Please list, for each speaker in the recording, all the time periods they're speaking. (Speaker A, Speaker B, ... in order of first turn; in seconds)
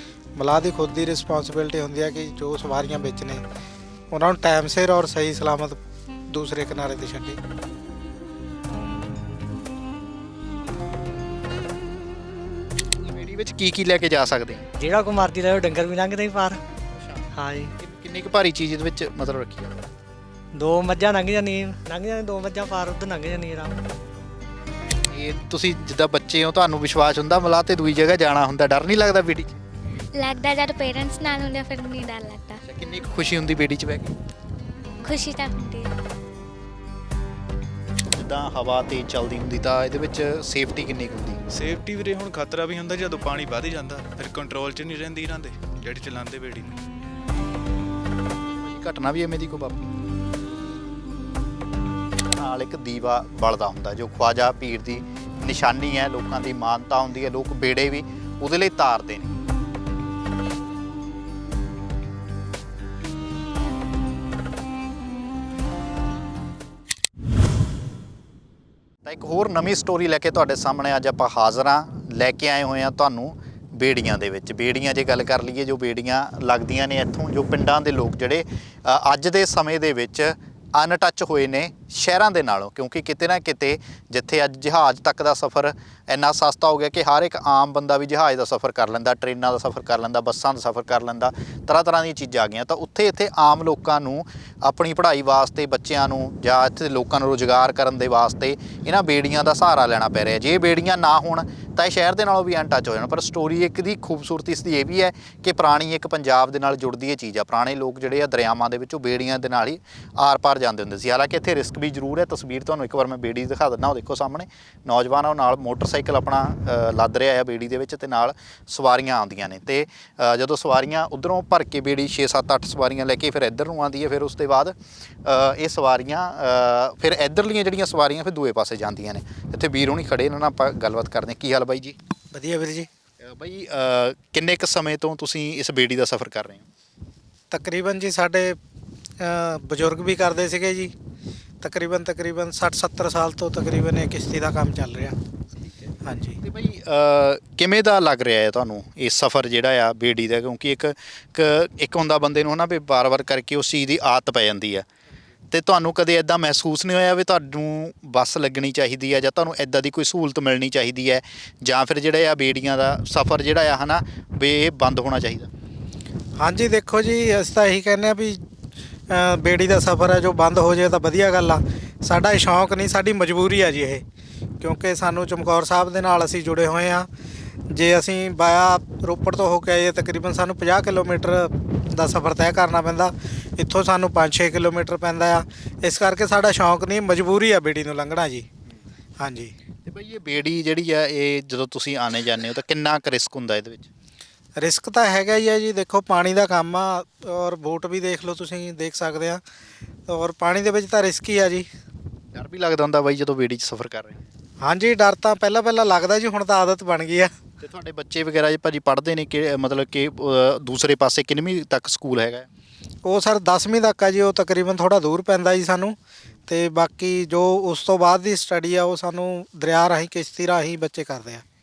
Speaker A: 0.4-3.4, 4.1-5.8, 6.3-7.4, 132.3-132.9, 137.5-138.6, 139.2-140.9, 141.6-145.2, 146.1-146.4, 166.4-168.4, 169.1-174.0, 174.6-177.1, 177.7-188.5, 189.2-189.5, 194.6-199.4, 200.1-201.7, 204.6-207.3, 213.0-216.0, 216.5-221.4
Speaker B: 13.0-14.7, 16.9-17.2, 17.8-19.9, 25.1-29.6, 32.6-34.1, 38.1-41.4, 48.5-49.8, 52.3-59.4, 69.0-132.0, 133.2-136.7, 145.6-154.9, 155.5-165.5, 189.8-193.9, 202.3-204.3, 207.6-212.5
Speaker C: 14.8-16.6, 17.3-17.7, 20.6-23.8
Speaker D: 30.1-32.6, 35.0-35.9
Speaker E: 41.5-46.8